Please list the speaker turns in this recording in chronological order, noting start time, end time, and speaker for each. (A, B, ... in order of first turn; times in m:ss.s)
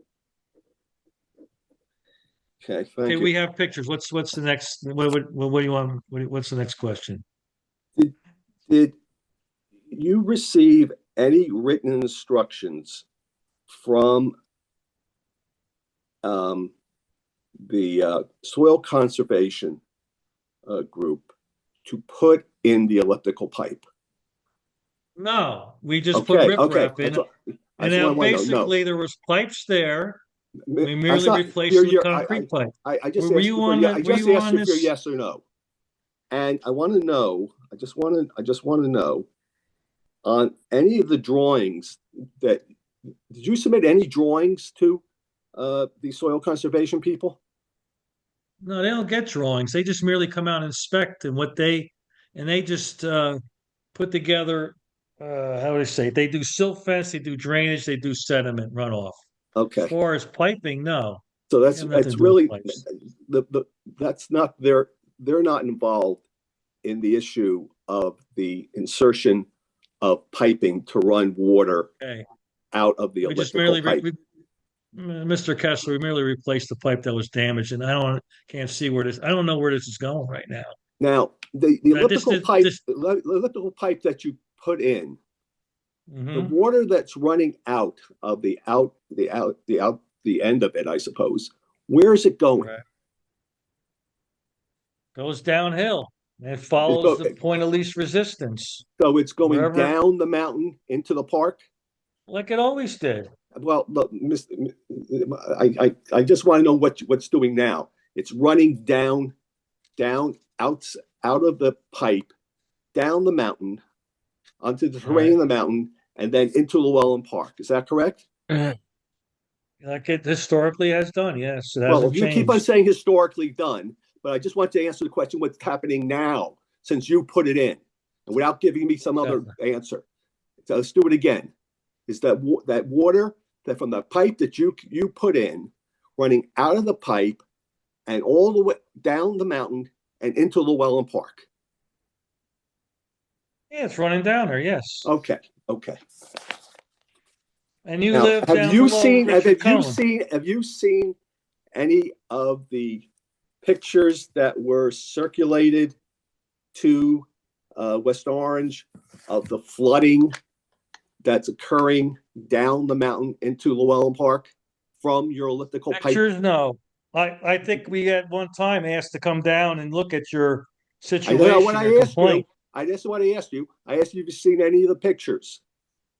0:02.6-0:03.4 A
0:03.1-0:07.2 B
0:08.7-0:09.0 A
0:09.9-0:13.0 A
0:13.7-0:14.3 A
0:16.2-0:16.7 A
0:17.7-0:19.8 A
0:20.7-0:21.3 A
0:21.8-0:23.8 A
0:25.2-0:27.2 B
0:26.1-0:28.8 A
0:27.8-0:30.2 B
0:30.7-0:35.4 A
0:30.8-0:34.9 B
0:36.3-0:39.3 A
0:40.2-0:42.7 A
0:43.3-0:45.0 A
0:45.6-0:47.4 A
0:48.6-0:53.4 B
0:53.9-0:59.2 B
0:59.6-0:59.9 A
0:59.8-1:01.2 B
1:01.5-1:06.2 A
1:01.7-1:02.8 B
1:06.8-1:09.5 A
1:10.0-1:11.9 A
1:12.0-1:12.2 B
1:12.7-1:14.1 A
1:13.2-1:14.2 B
1:14.9-1:20.7 B
1:21.0-1:25.2 A
1:21.9-1:22.8 B
1:26.1-1:26.6 B
1:26.3-1:32.7 A
1:32.6-1:32.8 B
1:35.2-1:38.8 B
1:36.8-1:37.4 A
1:39.0-1:41.6 A
1:39.4-1:39.9 B
1:42.3-1:43.3 B
1:43.6-1:49.3 A
1:50.0-1:52.3 A
1:52.9-1:53.8 A
1:54.6-1:58.3 A
1:55.0-1:55.4 B
1:59.8-2:02.6 B
2:01.9-2:10.0 A
2:09.2-2:09.5 B
2:10.6-2:11.5 A
2:12.1-2:17.4 A
2:18.1-2:21.5 A
2:23.7-2:25.1 B
2:25.0-2:26.0 A
2:27.8-2:30.0 B
2:28.1-2:31.2 A
2:31.7-2:33.1 A
2:33.6-2:36.0 A
2:36.8-2:40.3 A
2:41.2-2:46.2 A
2:45.9-2:52.5 B
2:51.2-2:55.6 A